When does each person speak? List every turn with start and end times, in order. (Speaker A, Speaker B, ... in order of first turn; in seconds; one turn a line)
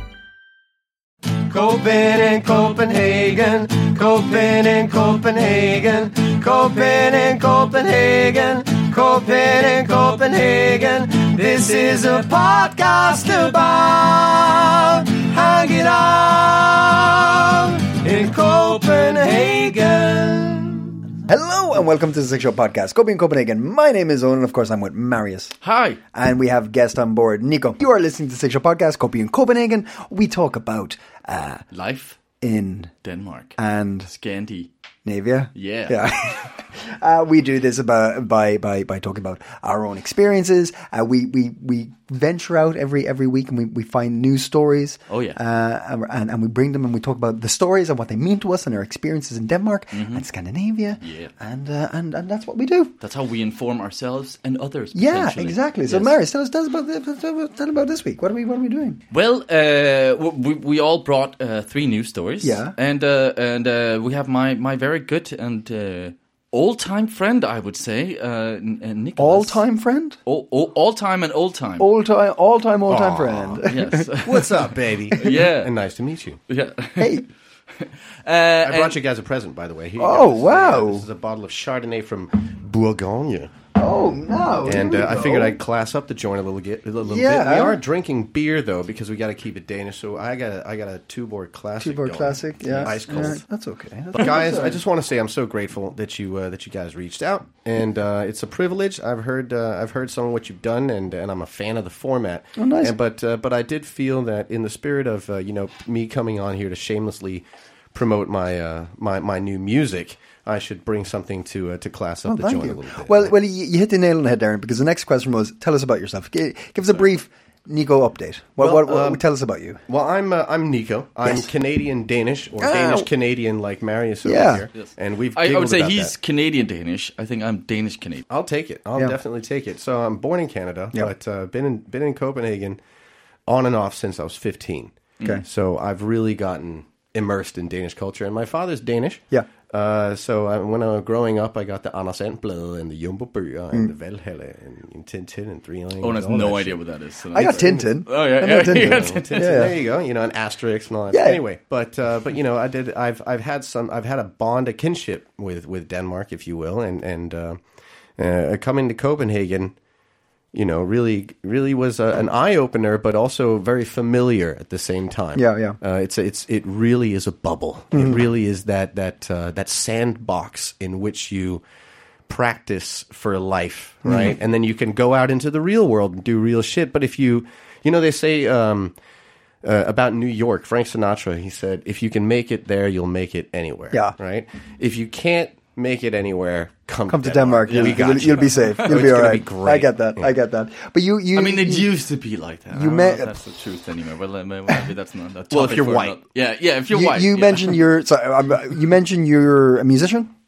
Speaker A: 1.5-20.9
Speaker B: 21.2-25.5
Speaker C: 25.6-26.0
Speaker B: 26.1-31.6
Speaker C: 31.7-32.2
Speaker B: 32.4-32.9
Speaker C: 33.0-34.7
Speaker B: 33.6-34.1
Speaker B: 35.0-52.9
Speaker C: 35.5-36.4
Speaker C: 45.1-45.4
Speaker C: 49.9-50.2
Speaker C: 51.0-51.3
Speaker C: 53.0-56.1
Speaker B: 54.9-59.0
Speaker C: 59.1-69.6
Speaker B: 62.4-62.7
Speaker B: 69.2-70.2
Speaker C: 70.2-71.9
Speaker B: 71.8-74.0
Speaker A: 72.9-73.6
Speaker C: 73.6-75.7
Speaker A: 74.2-76.4
Speaker C: 76.5-79.0
Speaker B: 77.0-77.2
Speaker A: 78.6-83.5
Speaker B: 80.0-81.0
Speaker B: 83.8-85.6
Speaker A: 84.6-93.4
Speaker B: 87.0-87.8
Speaker B: 91.8-94.8
Speaker C: 92.6-93.3
Speaker A: 94.1-113.3
Speaker B: 102.6-102.9
Speaker B: 112.2-119.8
Speaker A: 118.6-119.2
Speaker A: 119.9-126.1
Speaker B: 122.6-123.1
Speaker B: 124.2-124.7
Speaker C: 124.7-128.2
Speaker A: 128.3-132.8
Speaker A: 133.4-146.8
Speaker C: 146.0-149.6
Speaker B: 147.3-149.7
Speaker A: 148.7-157.6
Speaker B: 151.1-151.4
Speaker A: 158.2-159.7
Speaker A: 160.5-171.6
Speaker B: 165.3-165.8
Speaker B: 167.9-168.2
Speaker A: 172.3-179.0
Speaker B: 174.0-174.3
Speaker A: 179.6-190.3
Speaker B: 187.1-191.9
Speaker C: 187.7-189.0
Speaker C: 191.3-197.8
Speaker B: 192.7-193.3
Speaker A: 195.5-196.2
Speaker B: 196.9-200.3